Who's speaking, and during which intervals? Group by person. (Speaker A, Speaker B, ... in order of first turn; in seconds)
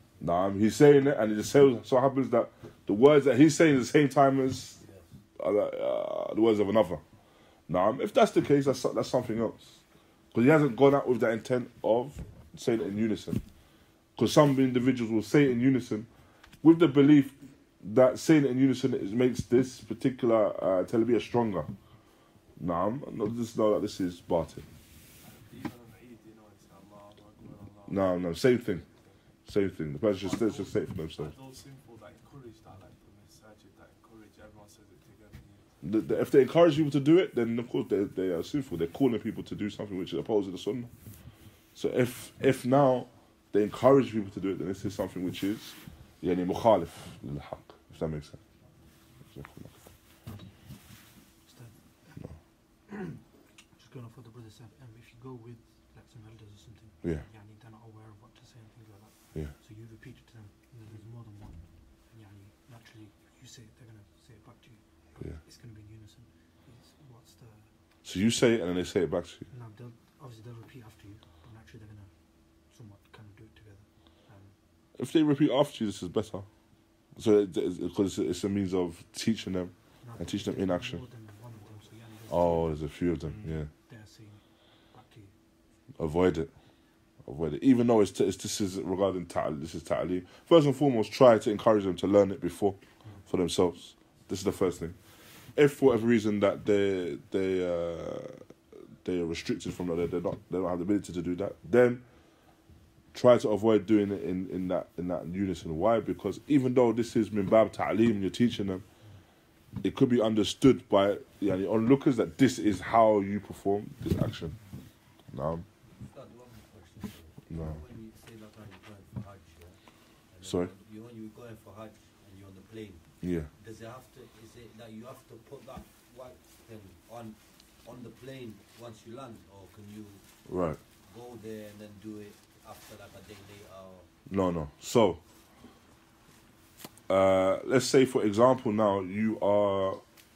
Speaker A: 0.2-4.8, 5.4-7.0, 7.7-9.8, 10.3-13.4, 14.2-16.1, 16.6-21.7, 22.6-24.6, 27.9-28.8, 29.4-31.3, 35.8-40.9, 41.7-48.4, 49.3-49.8, 68.0-69.5, 75.0-76.5, 77.1-81.0, 82.3-83.7, 86.0-86.5, 87.2-95.0, 95.5-98.4, 99.0-102.0, 103.1-108.8, 109.8-114.6, 115.3-115.7, 117.5-117.8, 120.4-120.7, 123.2-123.5, 130.4-130.8, 134.3-135.2, 137.1-140.0
Speaker B: 4.8-5.2, 115.9-130.4, 131.0-134.1
Speaker C: 25.2-29.2, 30.1-35.8
Speaker D: 51.3-52.2, 52.9-53.2, 53.7-67.7, 69.5-74.6, 80.0-85.3